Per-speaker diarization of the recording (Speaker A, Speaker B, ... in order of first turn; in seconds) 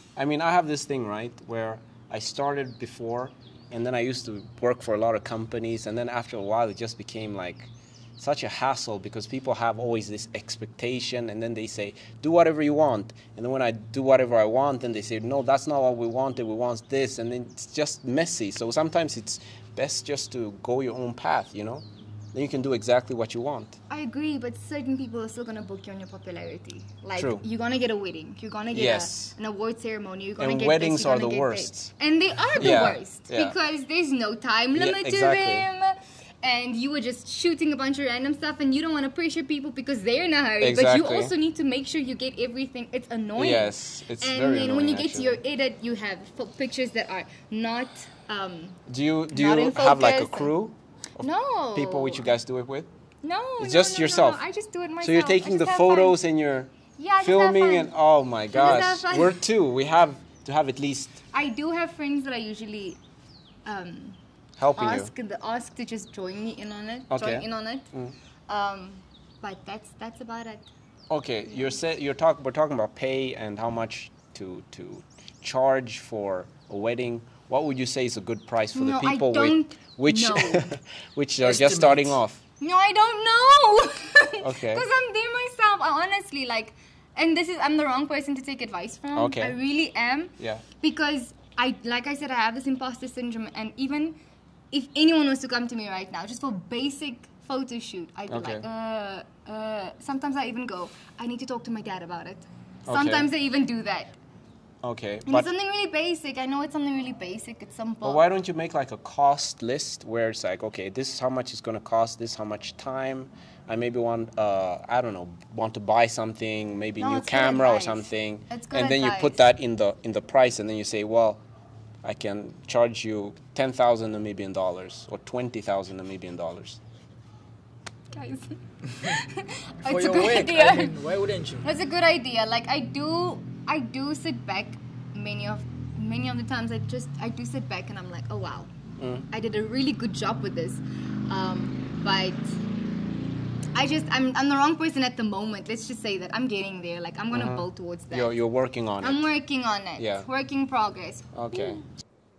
Speaker A: 0.2-23.8, 27.1-27.4, 28.7-29.4, 30.4-31.9, 32.6-33.6, 34.8-35.7, 40.6-41.3, 43.4-45.4, 48.9-52.9, 53.6-54.4, 55.0-61.2, 64.6-65.1, 67.1-68.2, 71.1-82.4, 84.4-84.9, 89.1-89.6, 98.3-98.7, 102.9-103.3, 104.8-105.5, 108.0-121.4, 122.0-126.8, 139.0-139.3, 147.3-149.3, 150.0-150.3, 151.3-151.8
Speaker B: 23.9-50.5, 51.2-52.3, 53.2-56.2, 57.0-57.9, 58.5-59.4, 61.3-63.0, 63.6-64.2, 64.8-67.9, 68.5-70.7, 78.8-80.7, 82.6-94.2, 94.7-104.1, 105.3-108.2, 117.0-119.4, 128.1-131.0, 131.6-138.7, 139.3-142.6, 143.7-148.4, 149.0-151.8
Speaker C: 81.4-82.2, 128.9-129.2, 129.8-131.7